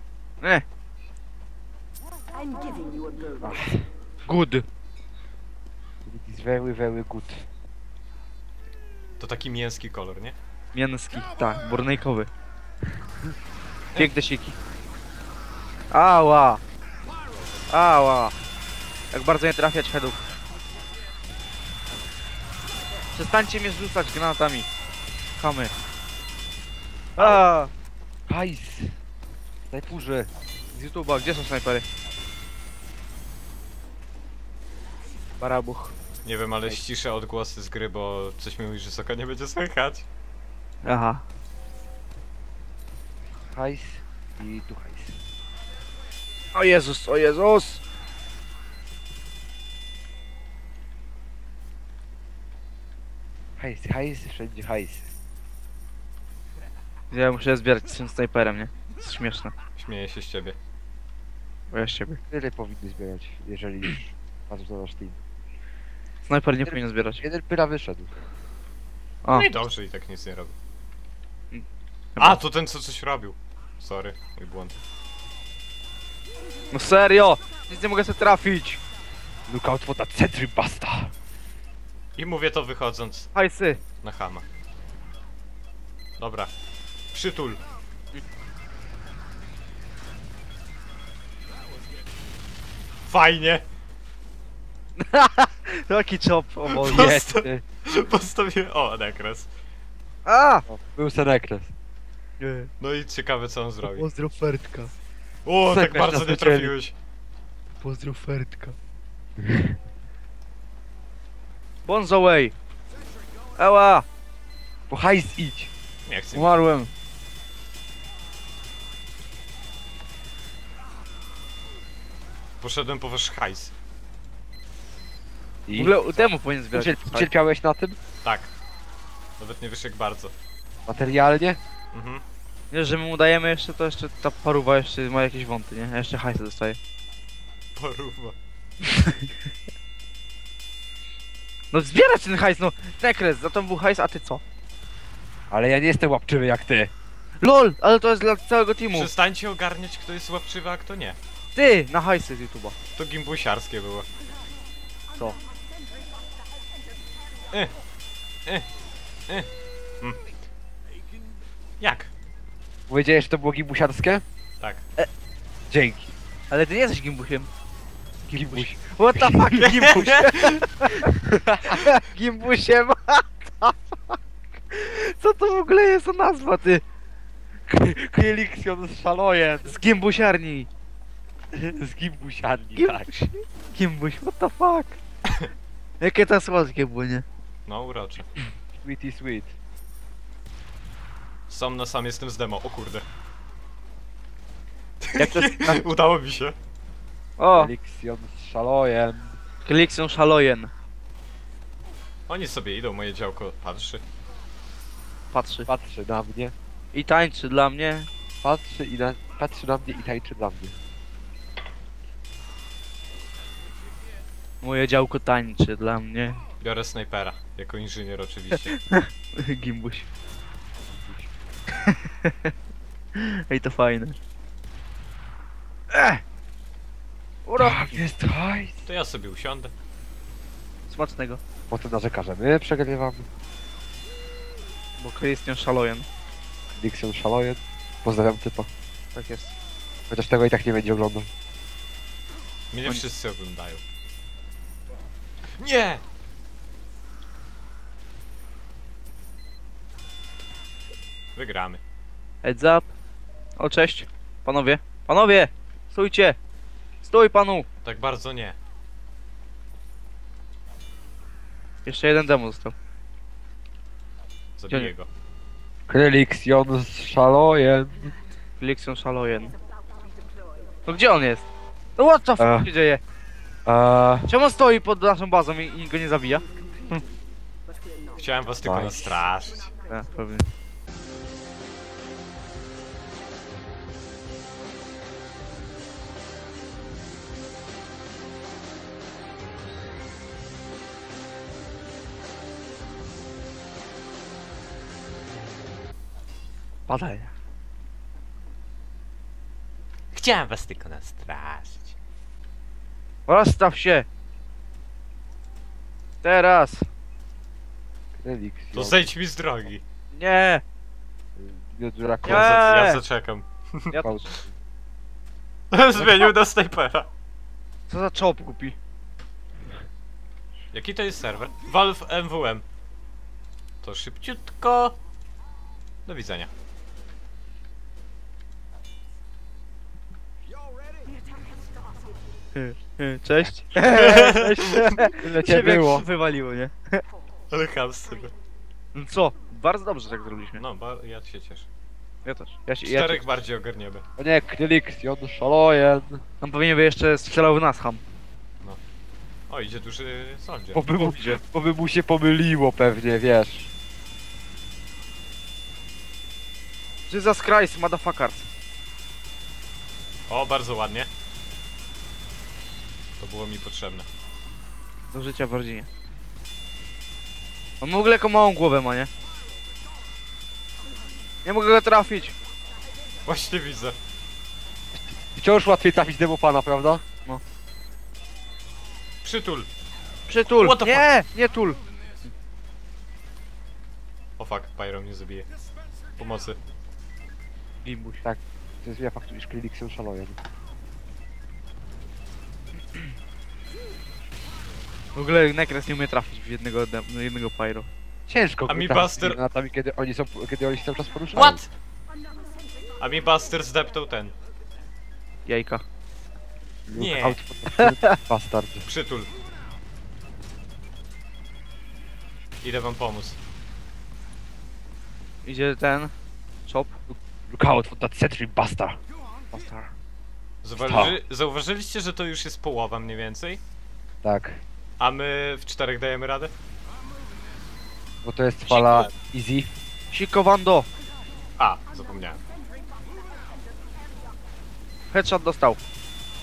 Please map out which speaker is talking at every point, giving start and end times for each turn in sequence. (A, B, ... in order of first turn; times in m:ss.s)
0:03.4-0:03.9 A
0:04.2-0:04.6 B
0:06.0-0:07.5 A
0:09.2-0:10.4 C
0:10.7-0:12.3 B
0:14.0-0:14.6 B
0:15.9-0:16.6 B
0:17.7-0:18.3 B
0:19.1-0:20.2 B
0:23.1-0:24.7 B
0:25.4-0:25.7 B
0:27.2-0:27.7 B
0:28.3-0:29.0 A
0:29.7-0:30.3 A
0:30.7-0:31.8 B
0:35.4-0:35.9 B
0:36.2-0:40.0 C
0:40.8-0:41.2 B
0:43.5-0:45.2 A
0:46.5-0:47.8 B
0:53.6-0:55.1 A
0:57.1-0:59.5 B
0:59.8-1:00.6 C
1:01.7-1:02.2 B
1:02.3-1:05.2 A
1:06.3-1:07.2 B
1:06.6-1:08.1 A
1:09.3-1:10.5 C
1:12.2-1:14.7 C
1:16.7-1:18.8 B
1:19.5-1:21.1 A
1:22.2-1:23.3 C
1:23.3-1:23.8 B
1:24.0-1:24.4 C
1:26.2-1:26.5 C
1:27.1-1:27.6 C
1:33.1-1:33.6 C
1:35.0-1:37.1 B
1:36.8-1:39.5 C
1:36.9-1:37.6 A
1:40.2-1:40.6 B
1:40.7-1:41.7 A
1:42.4-1:42.7 B
1:42.8-1:44.1 C
1:43.8-1:44.9 B
1:45.4-1:46.9 C
1:45.6-1:46.7 A
1:47.8-1:48.8 B
1:49.4-1:49.8 A
1:51.8-1:52.5 B
1:53.6-1:54.0 B
1:54.9-1:55.7 A
1:56.0-1:56.6 C
1:56.3-1:56.9 B
2:02.6-2:03.7 C
2:05.6-2:05.9 A
2:05.7-2:07.3 B
2:06.7-2:08.0 A
2:08.2-2:08.5 C
2:09.4-2:10.3 C
2:10.8-2:11.6 A
2:11.9-2:12.2 C
2:12.7-2:16.8 B
2:17.8-2:18.4 C
2:18.8-2:19.3 B
2:21.7-2:24.4 B
2:25.5-2:26.9 A
2:27.4-2:29.1 B
2:28.9-2:31.2 C
2:31.5-2:32.8 B
2:33.0-2:34.1 C
2:41.8-2:42.1 C
2:42.9-2:44.2 A
2:45.7-2:46.1 A
2:46.5-2:47.5 B
2:48.3-2:49.6 A
2:48.3-2:54.2 B
2:49.6-2:50.6 C
2:51.1-2:51.9 A
2:54.7-2:56.8 B
2:57.7-2:59.7 A
2:59.6-3:00.7 B
3:01.5-3:03.1 A
3:02.8-3:05.0 B
3:06.0-3:07.2 B
3:07.7-3:08.3 C
3:08.8-3:09.5 A
3:11.5-3:13.0 C
3:15.0-3:16.5 C
3:15.2-3:15.8 B
3:17.4-3:17.7 B
3:17.5-3:19.4 A
3:19.6-3:20.7 B
3:22.3-3:24.0 C
3:25.3-3:25.7 B
3:25.7-3:26.5 A
3:26.9-3:28.1 B
3:28.4-3:30.7 A
3:34.6-3:36.4 B
3:36.6-3:38.7 C
3:38.7-3:40.1 B
3:40.9-3:41.3 A
3:41.8-3:42.5 B
3:43.2-3:44.2 B
3:45.9-3:46.2 B
3:47.4-3:48.0 B
3:47.6-3:48.8 A
3:48.8-3:49.7 C
3:50.9-3:51.4 B
3:51.7-3:53.3 A
3:55.0-3:56.1 B
3:56.7-3:58.7 A
3:59.1-3:59.6 B
4:00.1-4:01.3 A
4:02.7-4:03.8 C
4:05.6-4:06.0 C
4:11.4-4:11.8 C
4:12.4-4:12.9 B
4:13.6-4:16.4 B
4:17.0-4:17.6 B
4:17.8-4:18.6 C
4:21.8-4:22.7 B
4:24.6-4:25.1 C
4:25.9-4:28.1 A
4:28.6-4:29.5 B
4:30.8-4:33.0 B
4:32.4-4:32.7 A
4:33.6-4:34.3 A
4:34.3-4:36.4 B
4:38.2-4:39.7 C
4:38.6-4:39.0 A
4:39.9-4:40.4 B
4:56.9-4:57.3 B
5:00.1-5:02.0 C
5:03.3-5:04.1 B
5:06.2-5:06.8 B
5:08.2-5:09.0 A
5:08.7-5:09.8 C
5:10.1-5:10.6 B
5:11.4-5:12.6 A
5:12.2-5:13.0 B
5:12.2-5:14.0 C
5:13.9-5:14.2 B
5:14.0-5:14.5 A
5:15.7-5:17.1 C
5:16.0-5:16.3 A
5:17.9-5:18.8 B
5:20.7-5:22.6 C
5:23.8-5:24.9 C
5:26.0-5:26.5 C
5:32.5-5:37.0 B
5:33.7-5:34.9 C
5:35.2-5:36.0 A
5:37.5-5:38.3 C
5:38.9-5:40.6 B
5:40.6-5:41.7 C
5:42.2-5:43.2 B
5:42.8-5:44.0 C
5:44.2-5:46.2 A
5:46.4-5:48.0 B
5:49.5-5:50.8 C
5:50.7-5:53.7 A
5:51.0-5:51.4 B
5:57.1-5:58.4 B
6:00.3-6:01.1 C
6:03.2-6:04.0 C
6:05.1-6:05.9 B
6:07.8-6:09.1 B
6:11.4-6:12.4 B
6:13.2-6:14.0 C
6:15.2-6:17.0 A
6:19.2-6:19.7 C
6:20.3-6:21.8 B
6:20.6-6:21.1 C
6:24.4-6:25.5 C
6:26.2-6:26.6 C
6:27.8-6:28.2 B
6:28.2-6:30.4 A
6:35.1-6:37.9 B
6:38.3-6:41.6 A
6:38.7-6:39.4 C
6:41.3-6:41.7 C
6:43.0-6:44.3 C
6:45.4-6:45.8 B
6:46.9-6:48.8 A
6:46.9-6:47.4 C
6:47.8-6:48.2 B
6:48.8-6:49.3 C
6:52.6-6:53.4 C
6:55.4-6:56.1 B
6:56.6-6:57.0 B
6:57.1-6:59.0 A
6:59.5-6:59.9 B
7:00.6-7:03.6 C
7:00.8-7:01.2 A
7:04.2-7:04.6 A
7:05.0-7:06.5 C
7:08.2-7:09.8 A
7:08.7-7:09.1 C
7:10.1-7:10.9 B
7:11.6-7:12.4 C
7:15.1-7:15.8 B